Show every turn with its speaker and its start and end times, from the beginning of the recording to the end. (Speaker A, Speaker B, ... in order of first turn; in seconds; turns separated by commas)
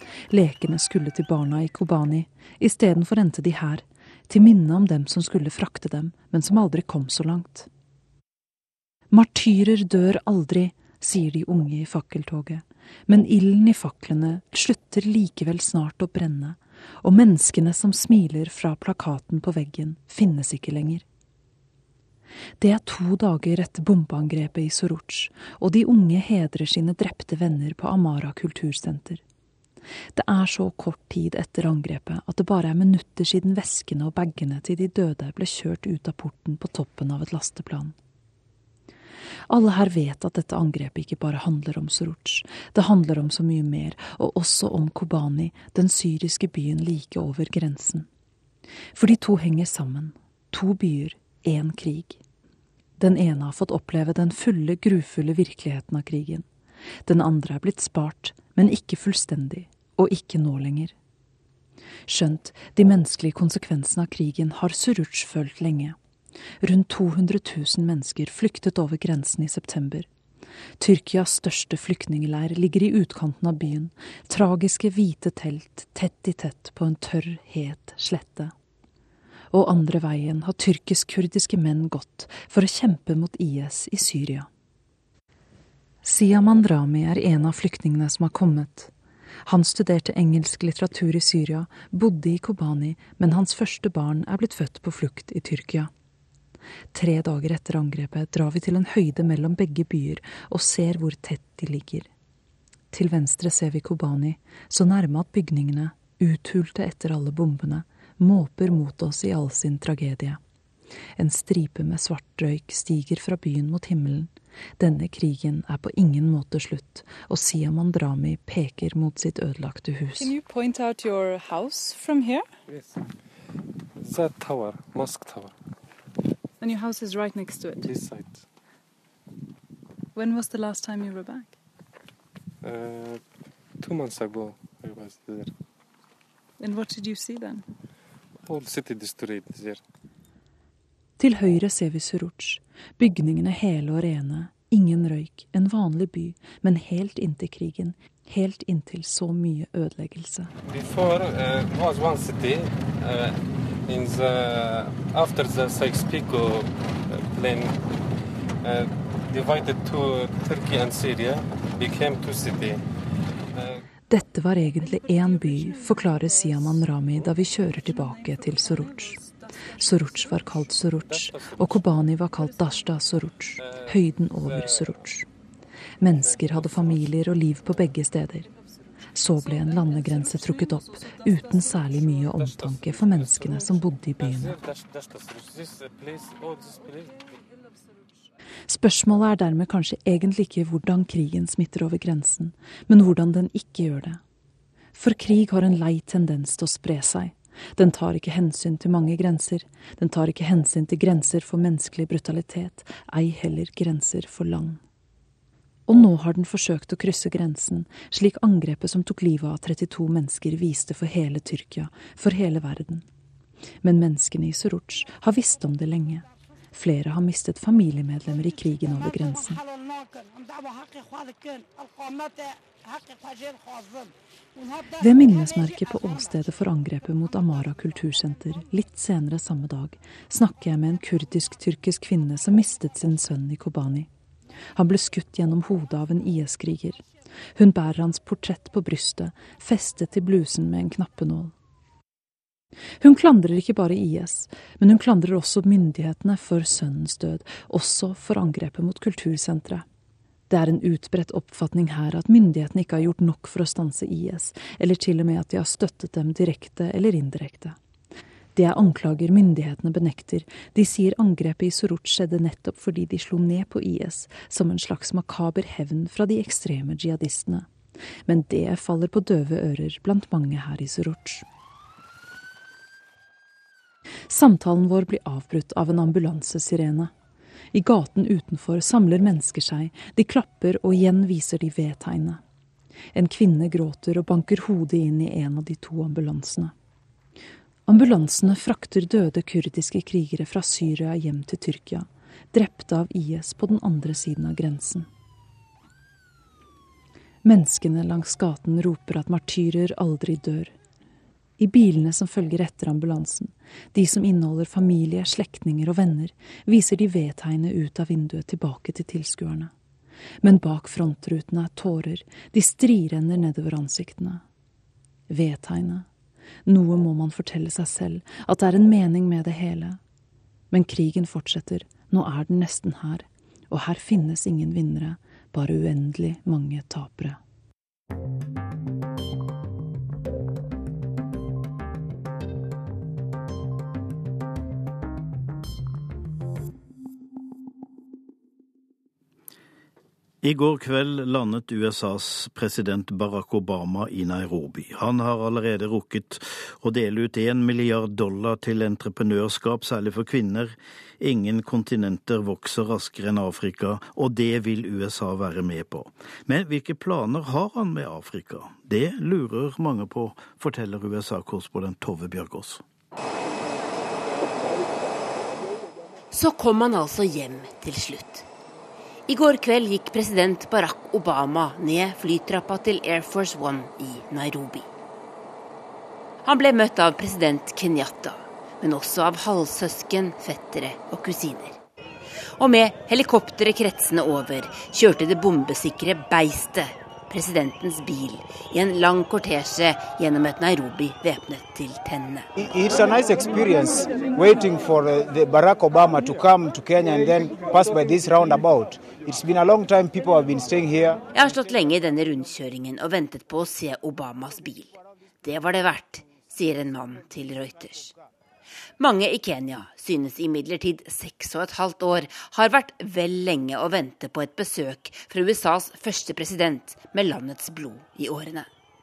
Speaker A: 0.3-7.7, Speaker A: 9.1-21.0, Speaker A: 22.6-29.2, Speaker A: 30.1-37.9, Speaker A: 39.5-48.1, Speaker A: 49.0-52.2, Speaker A: 53.0-56.5, Speaker A: 57.1-60.9, Speaker A: 62.1-66.0, Speaker A: 66.6-70.1, Speaker A: 70.8-78.5, Speaker A: 79.5-84.5, Speaker A: 86.0-88.9, Speaker A: 89.5-95.9, Speaker A: 96.9-102.1, Speaker A: 102.9-110.4, Speaker A: 111.2-120.3, Speaker B: 120.2-122.5, Speaker C: 122.7-123.0, Speaker C: 124.0-125.5, Speaker B: 126.6-127.9, Speaker C: 127.8-128.4, Speaker B: 130.2-131.5, Speaker C: 132.6-133.2, Speaker C: 133.8-135.5, Speaker B: 136.6-137.7, Speaker C: 138.4-139.8, Speaker A: 141.2-150.5, Speaker C: 150.7-157.8, Speaker C: 158.6-162.8, Speaker A: 164.1-169.2, Speaker A: 169.8-175.3, Speaker C: 171.1-171.8, Speaker C: 173.6-174.9, Speaker A: 176.0-178.5, Speaker C: 176.1-177.1, Speaker A: 179.1-184.6, Speaker C: 182.3-187.2, Speaker A: 188.7-194.2, Speaker A: 194.9-204.8, Speaker A: 205.9-213.1, Speaker A: 213.8-219.6, Speaker A: 225.0-234.1, Speaker A: 234.8-237.0, Speaker A: 237.6-241.5, Speaker A: 243.0-249.8, Speaker A: 250.5-257.8, Speaker A: 258.6-267.7, Speaker A: 268.3-271.4, Speaker A: 274.3-277.1, Speaker A: 277.7-282.4, Speaker A: 283.1-286.7, Speaker A: 287.9-295.1, Speaker A: 297.4-300.8, Speaker A: 301.6-309.7, Speaker A: 310.4-314.4, Speaker A: 315.3-316.1, Speaker A: 316.6-320.0, Speaker A: 320.7-327.4, Speaker D: 340.4-362.8, Speaker E: 366.3-368.5, Speaker E: 369.3-374.9, Speaker E: 376.4-381.8, Speaker E: 382.6-392.5, Speaker F: 392.6-401.2, Speaker E: 401.3-408.1, Speaker E: 409.0-418.7